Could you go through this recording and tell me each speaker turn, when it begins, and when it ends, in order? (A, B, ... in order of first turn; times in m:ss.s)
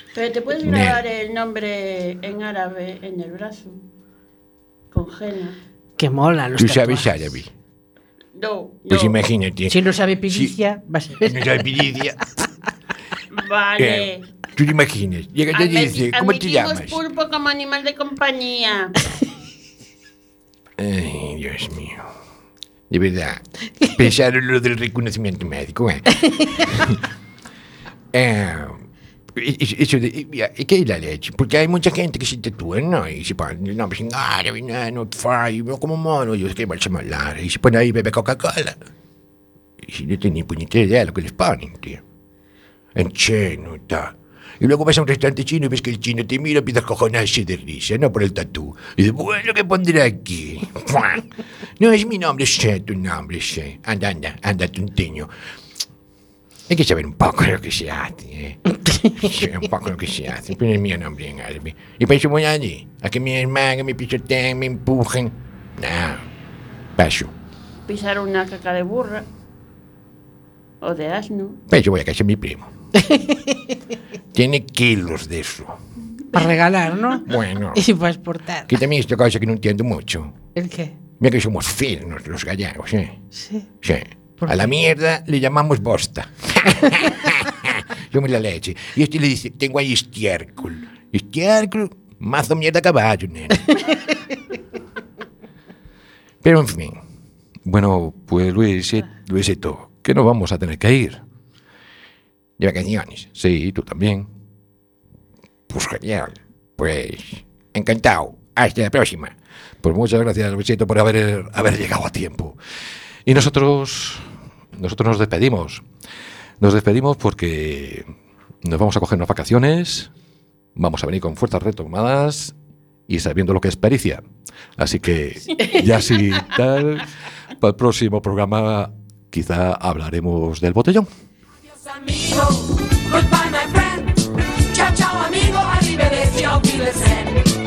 0:00.1-0:03.8 A
0:00.6-0:01.0 B
0:04.9-0:05.6 A
0:06.0-0:07.1 C
0:06.6-0:07.5 B
0:08.4-0:09.2 A
0:08.9-0:09.8 B
0:09.7-0:11.7 C
0:10.3-0:10.6 B
0:11.2-0:12.2 B
0:13.3-0:14.3 A
0:13.8-0:17.0 B
0:15.5-0:19.0 A
0:20.8-0:22.1 B
0:22.9-0:26.0 B
0:26.6-0:27.0 B
0:28.1-0:28.8 B
0:29.3-0:38.8 B
0:39.8-0:42.0 B
0:43.0-0:51.3 B
0:51.8-0:55.3 B
0:56.7-1:06.2 B
1:07.0-1:07.3 B
1:07.9-1:09.2 A
1:10.8-1:11.6 A
1:11.7-1:12.7 B
1:13.0-1:13.7 C
1:14.3-1:15.8 B
1:16.3-1:17.2 C
1:17.3-1:17.8 B
1:17.8-1:18.7 C
1:18.7-1:20.3 B
1:20.6-1:21.0 C
1:21.2-1:23.2 B
1:23.4-1:23.7 C
1:23.8-1:33.7 B
1:24.4-1:24.7 C
1:36.4-1:37.0 B
1:37.6-1:41.2 D
1:42.6-1:43.5 B
1:43.4-1:44.3 D
1:45.7-1:51.8 B
1:51.2-1:52.6 D
1:53.3-1:55.8 D
1:56.6-1:58.1 D
1:58.6-2:00.1 D
2:00.8-2:02.6 D
2:03.1-2:04.2 D
2:04.8-2:07.1 D
2:07.6-2:11.1 D
2:11.7-2:17.4 E